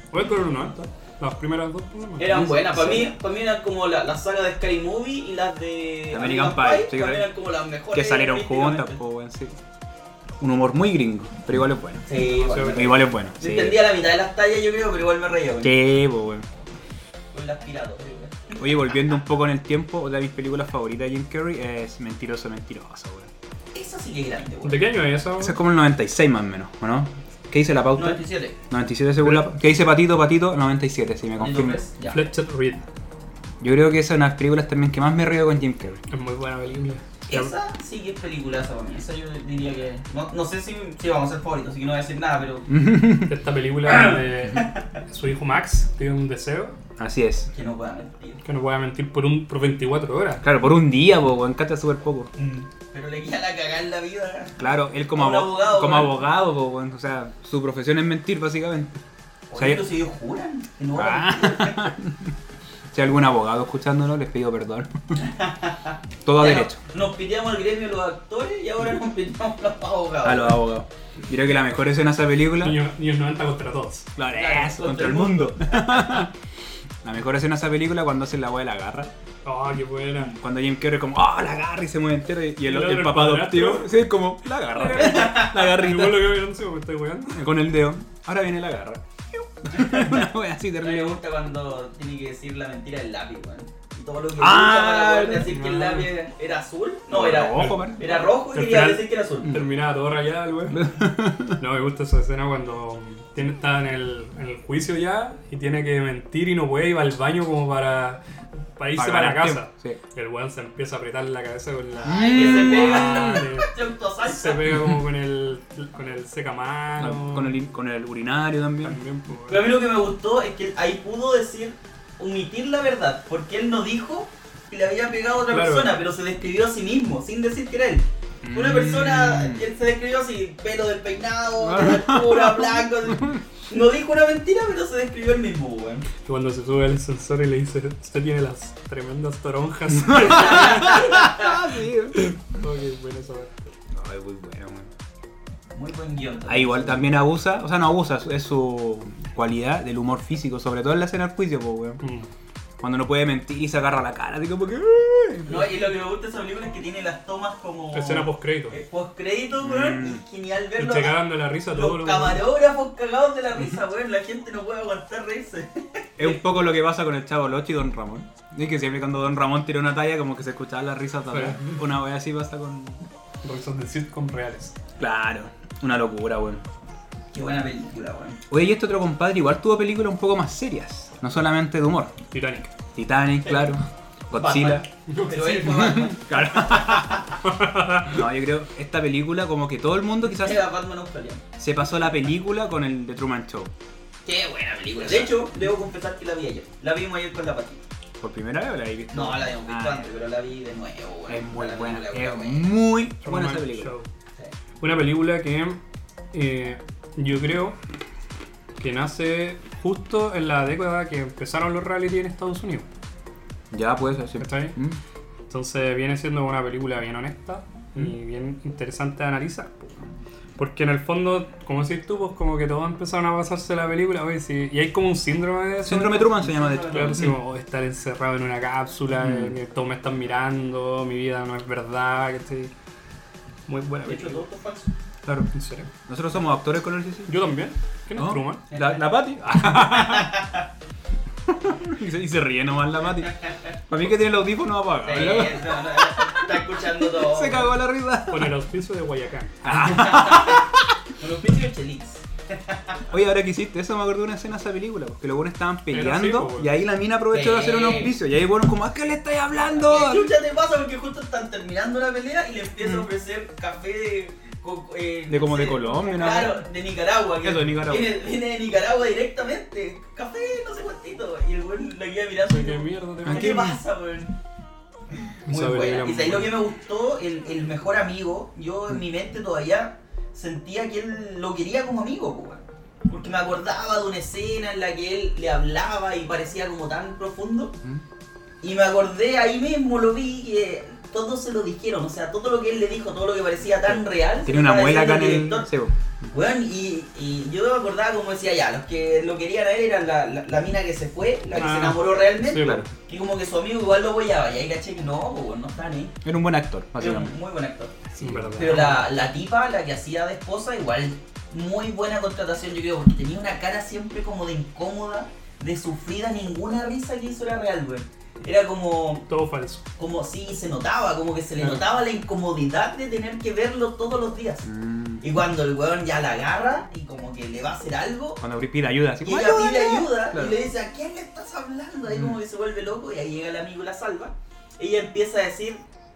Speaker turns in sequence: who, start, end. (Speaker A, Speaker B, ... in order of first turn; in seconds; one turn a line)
Speaker A: 0.1-2.4
Speaker B: 2.2-9.0
Speaker C: 2.3-3.1
Speaker C: 6.1-7.3
Speaker C: 7.9-9.6
Speaker C: 10.4-12.1
Speaker B: 12.1-15.7
Speaker A: 12.1-12.9
Speaker C: 12.6-13.8
Speaker C: 15.6-16.5
Speaker B: 17.3-18.6
Speaker C: 18.6-23.3
Speaker B: 23.7-24.8
Speaker A: 24.6-25.6
Speaker C: 25.4-31.8
Speaker B: 27.9-28.6
Speaker A: 29.2-29.5
Speaker B: 31.4-32.2
Speaker A: 32.1-32.9
Speaker C: 33.6-36.0
Speaker A: 36.1-37.5
Speaker B: 37.3-42.7
Speaker C: 42.7-43.3
Speaker A: 43.2-46.7
Speaker C: 47.0-47.5
Speaker B: 47.5-48.4
Speaker A: 48.4-50.4
Speaker C: 50.4-52.3
Speaker B: 52.4-54.6
Speaker C: 54.6-59.0
Speaker B: 55.1-56.2
Speaker B: 59.5-61.9
Speaker C: 59.5-59.8
Speaker C: 60.9-62.3
Speaker C: 62.9-65.2
Speaker B: 65.2-70.6
Speaker C: 66.2-66.8
Speaker C: 70.2-72.8
Speaker A: 72.6-74.1
Speaker C: 74.2-76.3
Speaker B: 74.3-76.2
Speaker C: 77.0-79.1
Speaker A: 79.4-80.3
Speaker C: 80.3-86.4
Speaker A: 82.6-84.0
Speaker A: 84.7-87.4
Speaker B: 85.1-85.4
Speaker C: 87.3-91.2
Speaker B: 89.8-90.1
Speaker B: 90.8-99.6
Speaker C: 94.4-95.5
Speaker A: 95.4-96.1
Speaker C: 97.1-98.1
Speaker A: 97.5-100.8
Speaker C: 100.7-101.6
Speaker A: 101.6-108.2
Speaker A: 108.8-113.7
Speaker C: 108.9-110.0
Speaker C: 112.0-113.5
Speaker B: 112.0-114.7
Speaker A: 114.2-117.5
Speaker C: 117.0-119.0
Speaker A: 118.8-119.7
Speaker B: 119.5-136.1
Speaker A: 125.5-126.0
Speaker C: 128.4-129.7
Speaker C: 131.6-133.4
Speaker A: 136.2-141.3
Speaker C: 139.9-142.3
Speaker B: 140.1-141.6
Speaker A: 142.1-143.7
Speaker C: 143.9-144.9
Speaker B: 145.7-147.1
Speaker C: 146.5-152.0
Speaker A: 152.0-152.3
Speaker C: 152.8-155.7
Speaker B: 155.4-166.4
Speaker A: 157.9-158.8
Speaker C: 159.6-160.2
Speaker A: 160.8-162.4
Speaker C: 166.2-173.1
Speaker A: 171.3-171.8
Speaker A: 173.4-174.7
Speaker C: 175.0-176.6
Speaker B: 177.3-178.4
Speaker C: 178.5-182.1
Speaker A: 182.3-182.7
Speaker C: 182.9-184.8
Speaker B: 184.3-187.4
Speaker A: 185.1-186.0
Speaker C: 185.7-187.2
Speaker A: 187.4-188.2
Speaker C: 188.1-190.7
Speaker B: 190.3-191.5
Speaker C: 191.6-193.7
Speaker B: 194.2-197.8
Speaker C: 198.2-200.1
Speaker B: 199.1-202.7
Speaker C: 201.3-203.9
Speaker A: 203.2-204.1
Speaker A: 204.8-205.8
Speaker A: 206.3-207.8
Speaker A: 208.8-212.9
Speaker C: 213.7-215.0
Speaker A: 214.4-214.8
Speaker A: 215.5-220.0
Speaker A: 220.6-232.7
Speaker C: 225.8-227.4
Speaker B: 226.6-227.2
Speaker C: 229.2-229.5
Speaker A: 233.7-234.4
Speaker B: 234.0-234.9
Speaker C: 235.2-235.5
Speaker A: 235.5-235.9
Speaker C: 236.1-237.3
Speaker A: 237.3-238.6
Speaker C: 238.2-240.3
Speaker B: 238.7-239.0
Speaker B: 239.6-240.6
Speaker C: 241.4-243.3
Speaker C: 243.9-248.5
Speaker B: 245.0-247.7
Speaker A: 248.3-250.2
Speaker C: 249.6-250.9
Speaker B: 249.8-250.6
Speaker B: 251.2-253.0
Speaker C: 253.1-260.3
Speaker A: 255.9-256.8
Speaker B: 257.3-258.1
Speaker B: 259.8-274.4
Speaker C: 265.3-266.6
Speaker C: 267.4-268.1
Speaker A: 272.5-273.6
Speaker C: 273.2-273.8
Speaker B: 275.3-287.7
Speaker A: 275.5-276.5
Speaker B: 288.6-295.7
Speaker C: 293.9-296.3
Speaker B: 296.3-306.1
Speaker A: 301.6-302.9
Speaker C: 302.5-302.9
Speaker C: 306.2-307.3
Speaker B: 307.0-308.0
Speaker C: 308.2-308.8
Speaker A: 308.2-309.0
Speaker B: 308.6-319.2
Speaker A: 319.3-319.8
Speaker B: 320.0-324.7
Speaker C: 324.6-325.2
Speaker B: 325.2-328.4
Speaker C: 328.4-330.6
Speaker B: 329.2-335.8
Speaker C: 332.1-332.4